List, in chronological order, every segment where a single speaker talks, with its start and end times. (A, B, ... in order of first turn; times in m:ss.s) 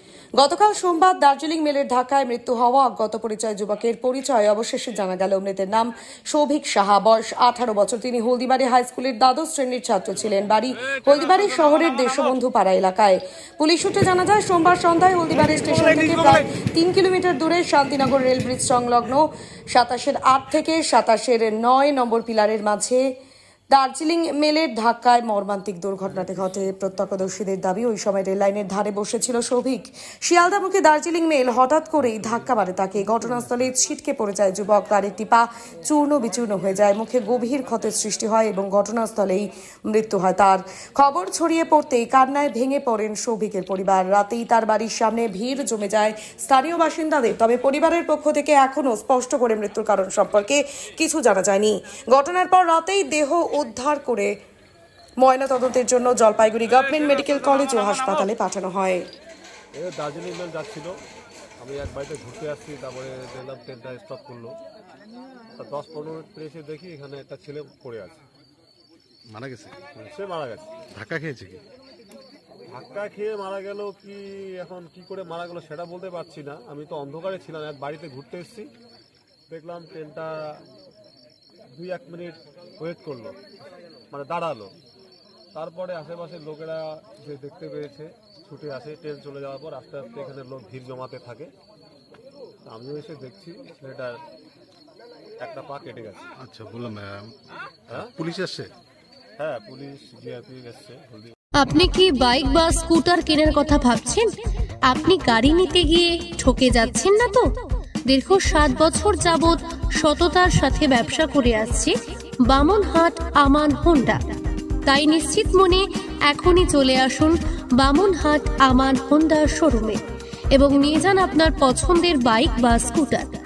0:00.4-0:23.1 A
0:23.7-0:54.3 A
0:55.2-0:59.1 A
0:59.7-1:00.9 B
1:01.6-1:04.6 B
1:05.6-1:08.2 B
1:09.3-1:09.8 C
1:09.9-1:10.7 B
1:10.9-1:11.6 C
1:12.7-1:18.7 B
1:19.5-1:20.6 B
1:21.8-1:23.4 B
1:24.1-1:24.7 B
1:25.5-1:31.5 B
1:32.6-1:34.2 B
1:35.4-1:36.2 B
1:36.4-1:37.3 C
1:37.9-1:38.7 C
1:39.4-1:41.4 B
1:41.6-1:44.3 D
1:44.9-1:47.5 D
1:48.1-1:51.9 D
1:52.4-1:54.2 D
1:54.8-2:00.0 D
2:00.5-2:03.3 D